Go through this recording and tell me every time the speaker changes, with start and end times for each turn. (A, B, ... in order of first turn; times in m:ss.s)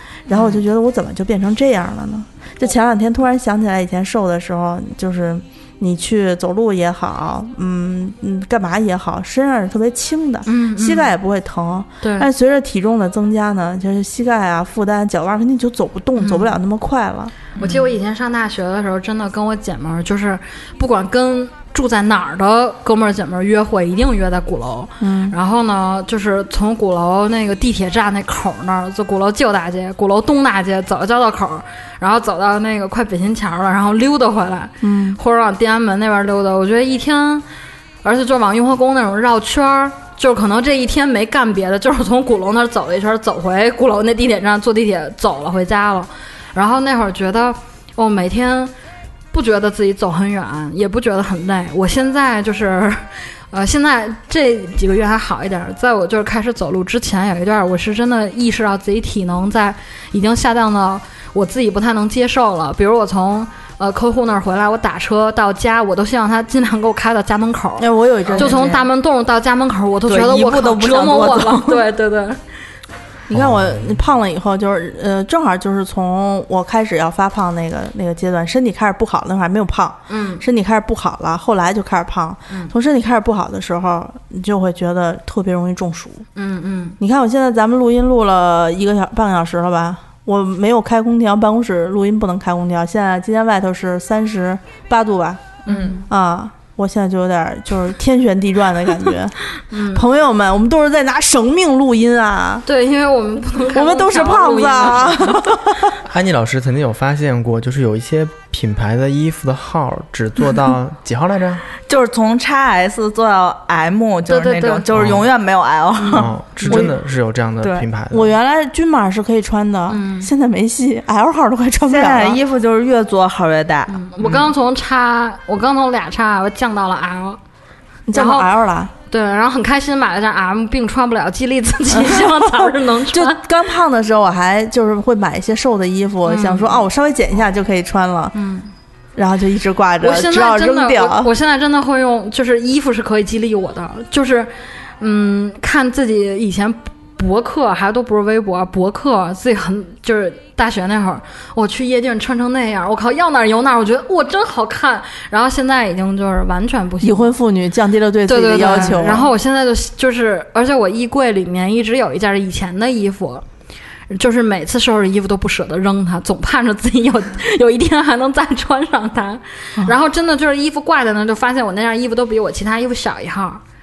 0:00.3-0:17.3 A
0:00.3-0:00.6 B
0:10.5-0:11.1 B
0:12.0-0:12.3 B
0:16.2-0:16.6 B
0:17.6-0:17.9 C
0:17.6-0:37.4 B
0:25.0-0:25.4 A
0:34.8-0:35.2 A
0:38.0-0:48.7 B
0:49.3-1:12.4 B
1:07.8-1:08.8 A
1:08.3-1:08.6 C
1:10.1-1:11.8 C
1:13.3-1:26.2 A
1:13.3-1:14.0 D
1:20.1-1:20.4 B
1:26.4-1:27.0 B
1:27.0-1:39.4 A
1:35.7-1:36.0 C
1:35.7-1:36.0 B
1:39.7-1:40.0 B
1:39.9-1:42.6 A
1:42.6-1:45.5 B
1:43.7-1:46.0 A
1:46.0-1:51.7 D
1:51.9-1:56.9 C
1:54.3-1:54.9 B
1:54.9-1:55.3 D
1:56.0-1:56.9 B
1:56.1-1:58.3 D
1:57.6-1:57.9 C
1:58.1-2:02.4 A
1:59.9-2:00.3 B
2:01.9-2:04.0 C
2:03.9-2:07.4 B
2:08.1-2:08.9 A
2:08.1-2:08.5 B
2:09.1-2:13.4 B
2:11.9-2:18.3 A
2:16.2-2:16.8 B
2:18.3-2:18.7 B
2:19.2-2:21.3 A
2:20.0-2:37.3 B
2:37.0-2:39.3 A
2:38.3-2:43.4 B
2:44.1-2:53.6 B